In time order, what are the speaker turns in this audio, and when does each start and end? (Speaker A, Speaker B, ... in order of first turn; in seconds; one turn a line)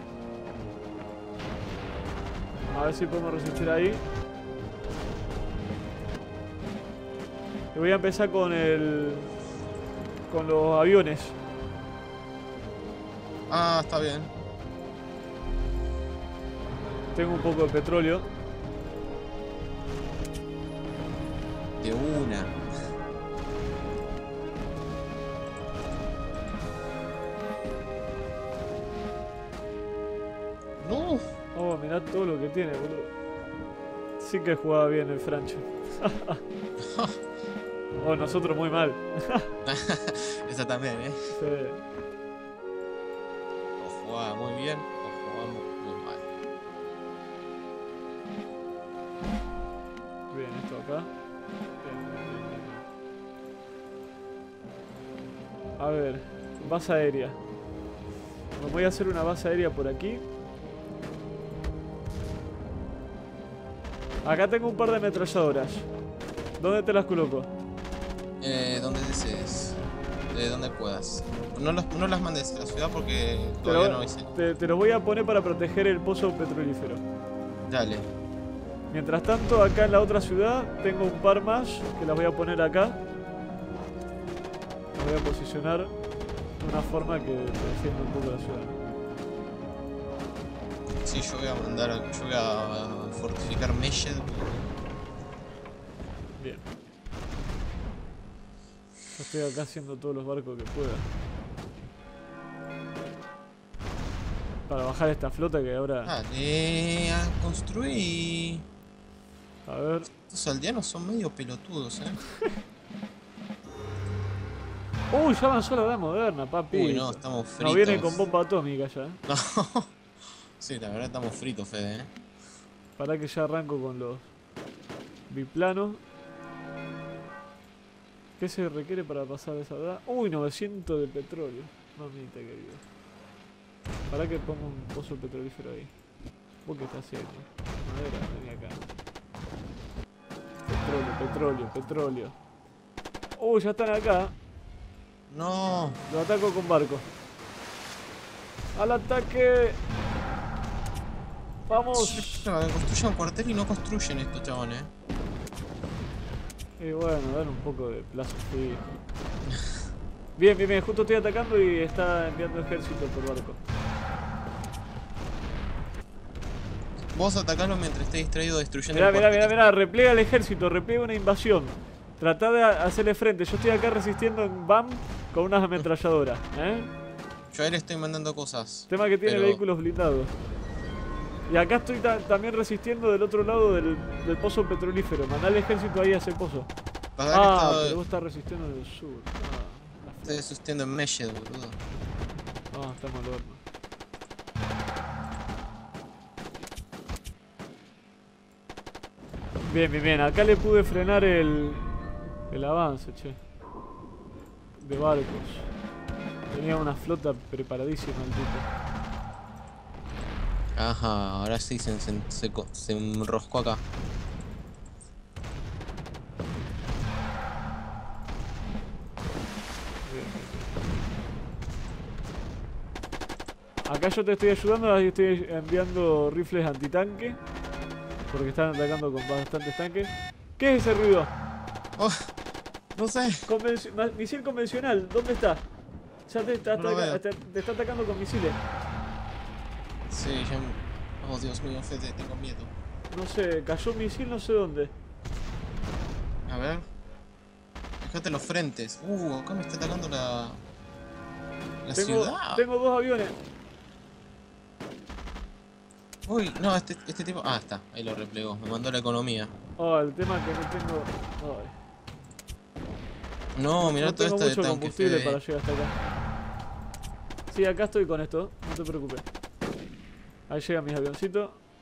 Speaker A: 2.7-4.0
Speaker A: 7.7-9.3
Speaker A: 10.3-11.4
Speaker B: 13.5-14.3
Speaker A: 17.1-18.3
Speaker B: 21.8-22.6
Speaker B: 30.8-31.3
Speaker A: 31.5-33.1
Speaker A: 34.2-36.4
Speaker B: 36.8-37.2
Speaker A: 38.0-39.5
Speaker B: 39.6-41.3
Speaker A: 41.3-41.8
Speaker B: 43.8-46.3
Speaker A: 50.3-51.1
Speaker A: 51.8-52.8
Speaker A: 55.8-57.4
Speaker A: 58.5-60.2
Speaker A: 64.2-65.9
Speaker A: 66.6-67.5
Speaker B: 68.4-69.8
Speaker B: 70.3-74.3
Speaker A: 73.6-77.0
Speaker B: 77.7-78.1
Speaker A: 78.9-83.0
Speaker A: 84.9-85.9
Speaker A: 86.6-88.8
Speaker B: 91.0-94.6
Speaker A: 96.4-96.7
Speaker A: 99.1-101.1
Speaker A: 104.7-106.1
Speaker B: 106.0-108.7
Speaker A: 109.7-110.1
Speaker B: 110.1-112.2
Speaker A: 115.1-119.2
Speaker B: 116.7-118.2
Speaker B: 119.3-119.9
Speaker B: 120.6-122.1
Speaker A: 123.0-124.3
Speaker A: 125.3-126.0
Speaker A: 128.4-132.8
Speaker A: 134.1-135.9
Speaker A: 136.6-138.9
Speaker A: 140.7-142.3
Speaker A: 143.4-144.3
Speaker B: 145.3-146.0
Speaker A: 146.1-147.0
Speaker A: 148.8-149.8
Speaker A: 151.7-152.5
Speaker B: 151.9-154.9
Speaker A: 156.8-159.0
Speaker A: 160.4-163.6
Speaker B: 167.1-169.7
Speaker A: 168.9-176.9
Speaker B: 177.5-179.6
Speaker A: 178.9-180.3
Speaker A: 181.5-186.7
Speaker B: 187.2-188.0
Speaker A: 187.3-190.4
Speaker B: 190.2-191.8
Speaker A: 192.7-193.6
Speaker A: 199.7-201.9
Speaker A: 202.5-203.4
Speaker A: 204.8-205.7
Speaker A: 206.5-208.7
Speaker B: 210.8-213.8
Speaker A: 220.0-220.7
Speaker A: 223.8-227.4
Speaker A: 228.3-231.3
Speaker B: 231.9-232.3
Speaker B: 232.9-233.5
Speaker A: 233.5-235.6
Speaker A: 236.3-238.6
Speaker B: 236.7-237.2
Speaker B: 240.1-242.7
Speaker A: 243.1-244.9
Speaker B: 246.5-246.8
Speaker B: 248.0-250.6
Speaker B: 251.8-252.6
Speaker A: 251.9-253.3
Speaker B: 256.3-259.5
Speaker A: 259.8-261.7
Speaker B: 263.6-265.4
Speaker A: 263.8-266.0
Speaker A: 267.5-269.2
Speaker A: 270.5-271.6